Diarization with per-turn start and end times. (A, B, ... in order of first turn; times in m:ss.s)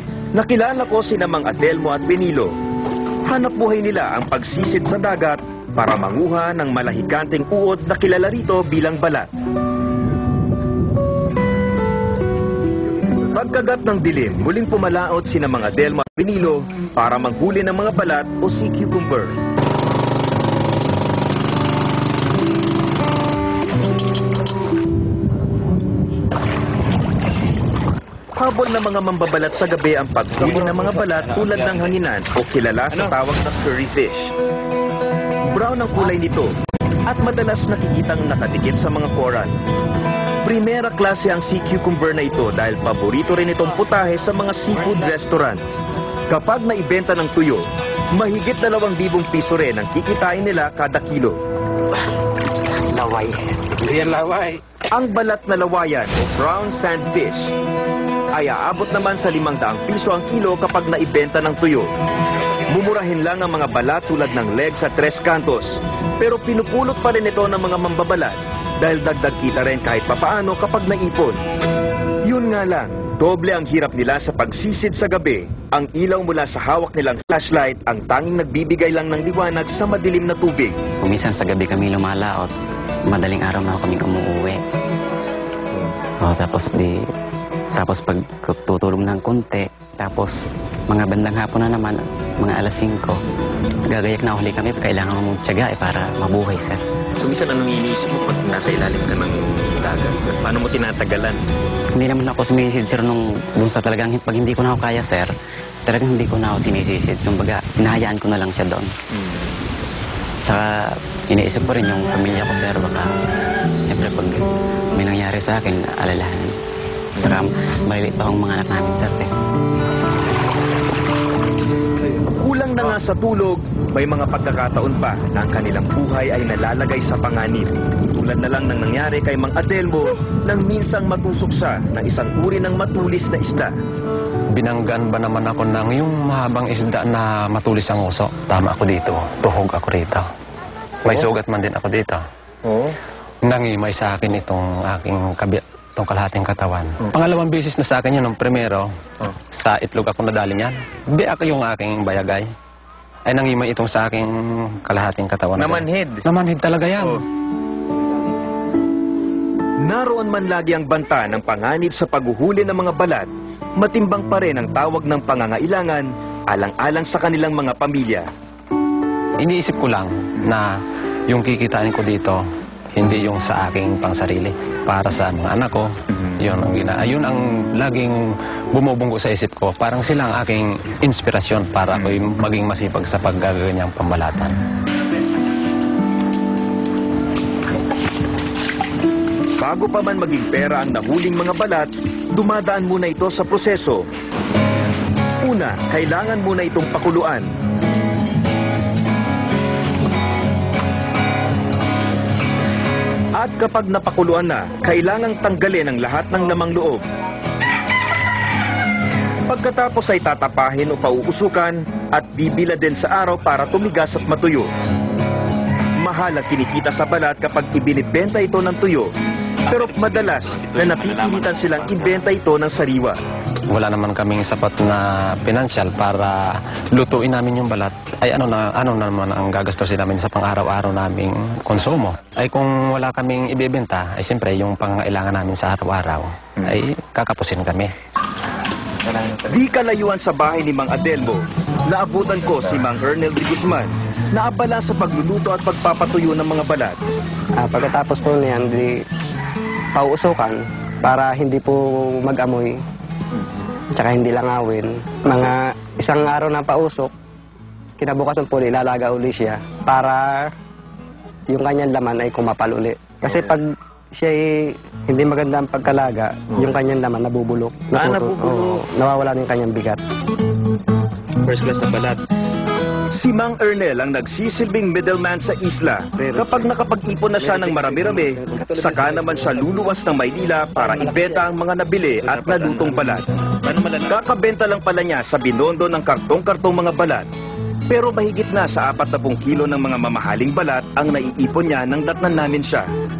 0:00.4-0:02.6 A
0:03.3-0:09.3 A
0:13.3-0:19.4 A
0:28.4-0:33.6 A
0:30.4-0:31.9 B
0:32.9-0:34.3 B
0:35.5-0:36.5 A
0:37.1-0:39.6 A
0:40.4-0:45.6 A
0:46.3-0:51.4 A
0:54.9-0:57.5 A
0:58.3-1:01.9 A
1:02.7-1:11.4 A
1:12.3-1:20.8 A
1:21.0-1:22.5 C
1:23.1-1:24.6 C
1:26.2-1:27.0 C
1:27.8-1:30.4 C
1:30.9-1:33.2 C
1:33.9-1:36.8 C
1:37.2-1:41.4 B
1:42.0-1:45.3 C
1:45.9-1:48.9 C
1:50.5-1:53.1 C
1:53.8-1:56.5 C
1:57.2-1:59.3 C
2:02.4-2:13.7 A
2:14.5-2:20.3 D
2:21.0-2:22.2 D
2:23.4-2:28.9 D
2:29.5-2:32.5 D
2:33.3-2:37.2 D
2:35.6-2:36.2 B
2:39.8-2:48.3 A
2:49.4-2:50.7 D
2:51.3-2:52.4 D
2:52.9-3:04.6 D
3:09.6-3:14.1 A
3:15.4-3:17.5 A
3:23.4-3:27.0 A
3:29.5-3:34.7 A
3:36.0-3:39.1 A
3:39.7-3:42.2 B
3:39.7-3:43.2 A
3:43.7-3:57.9 D
3:59.1-3:59.6 B
3:59.5-4:07.0 A
4:07.6-4:09.0 E
4:10.0-4:12.8 E
4:14.0-4:17.1 E
4:18.0-4:20.5 E
4:21.5-4:30.0 E
4:28.0-4:28.8 B
4:31.5-4:32.2 B
4:33.1-4:43.2 A
4:36.2-4:36.7 E
4:37.4-4:39.6 E
4:38.6-4:39.0 B
4:40.8-4:41.3 B
4:41.0-4:41.4 E
4:42.2-4:44.1 B
4:44.1-4:47.3 A
4:47.9-4:52.9 A